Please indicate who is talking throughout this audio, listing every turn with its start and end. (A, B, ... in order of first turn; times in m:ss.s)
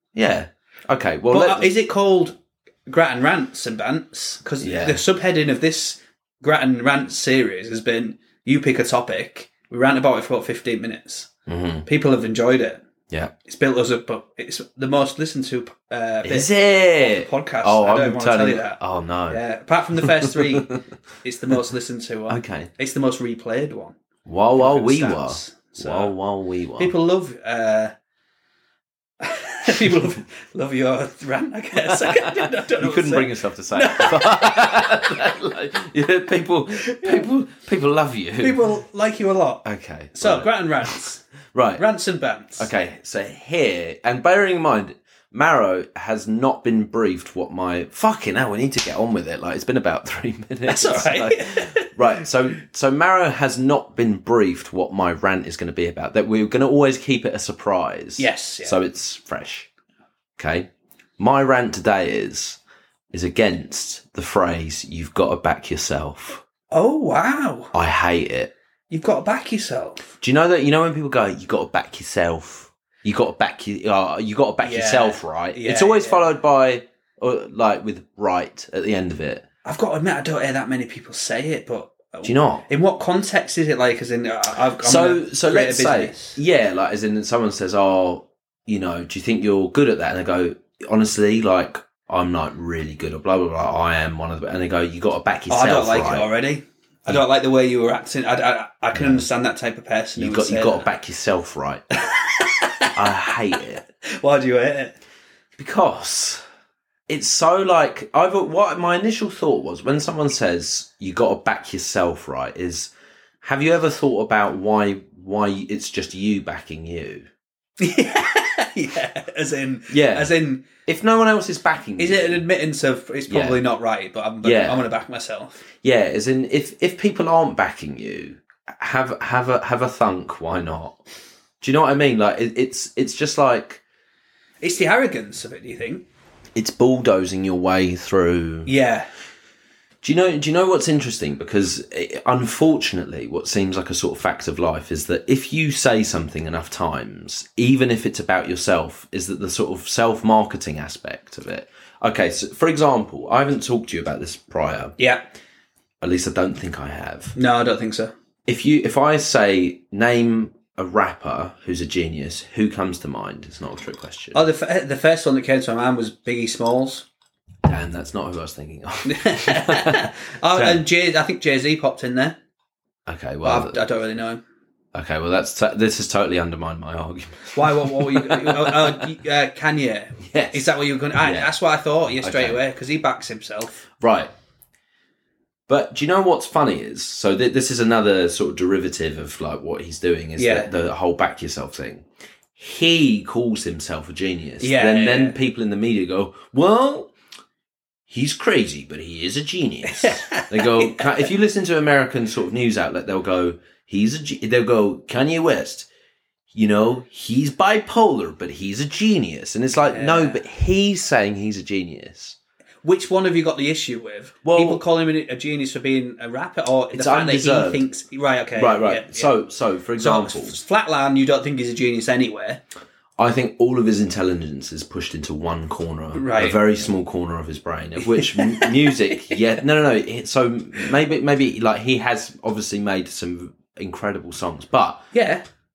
0:00.2-0:01.7 A
0:01.3-0:11.3 B
0:04.6-0:05.0 A
0:11.5-0:11.9 A
0:11.9-0:12.8 B
0:13.4-0:18.8 B
0:16.2-0:19.4 A
0:19.3-0:24.0 B
0:20.0-0:20.8 A
0:22.3-0:22.7 A
0:24.3-0:26.9 A
0:24.6-0:26.2 B
0:26.8-0:27.9 B
0:29.2-0:35.0 B
0:31.9-0:38.7 A
0:37.0-0:37.3 B
0:38.4-0:41.2 B
0:39.6-0:41.0 A
0:41.5-0:41.8 A
0:41.8-0:42.7 B
0:42.6-0:59.7 A
0:50.7-0:51.9 B
0:58.2-0:58.8 B
1:00.4-1:02.6 A
1:03.1-1:06.4 A
1:06.7-1:07.7 B
1:07.7-1:08.5 A
1:08.9-1:10.1 B
1:10.2-1:19.4 A
1:14.6-1:16.3 B
1:19.6-1:26.4 B
1:22.2-1:22.6 A
1:24.8-1:36.3 A
1:35.5-1:40.9 B
1:39.0-1:39.3 A
1:40.2-1:41.8 A
1:42.0-1:43.0 B
1:42.9-1:43.8 A
1:44.2-1:45.0 B
1:45.6-1:46.4 A
1:47.1-1:52.9 A
1:53.4-1:57.3 A
1:57.8-2:00.6 B
1:59.9-2:02.4 A
2:02.0-2:05.6 B
2:03.3-2:03.6 A
2:04.4-2:04.9 A
2:05.8-2:11.0 A
2:11.6-2:13.8 A
2:14.6-2:16.0 B
2:16.6-2:18.7 A
2:18.7-2:19.1 B
2:20.0-2:35.0 A
2:35.0-2:35.2 B
2:36.0-2:37.4 A
2:37.4-2:38.1 B
2:38.5-2:44.4 A
2:44.3-2:47.0 B
2:47.6-2:50.8 A
2:49.0-2:52.4 B
2:53.1-2:53.8 A
2:53.4-2:54.4 B
2:54.9-2:59.0 A
2:57.5-3:03.7 B
3:00.2-3:01.5 A
3:02.2-3:02.6 A
3:04.0-3:04.3 A
3:05.7-3:17.1 A
3:10.4-3:10.7 B
3:14.6-3:15.4 B
3:18.1-3:25.9 A
3:19.9-3:21.1 B
3:26.5-3:32.4 A
3:29.9-3:30.4 B
3:32.8-3:39.3 B
3:34.4-3:34.8 A
3:36.9-3:37.8 A
3:38.6-3:40.6 A
3:40.0-3:42.6 B
3:43.2-3:55.1 A
3:46.1-3:46.6 B
3:48.0-3:49.2 B
3:55.1-3:55.4 B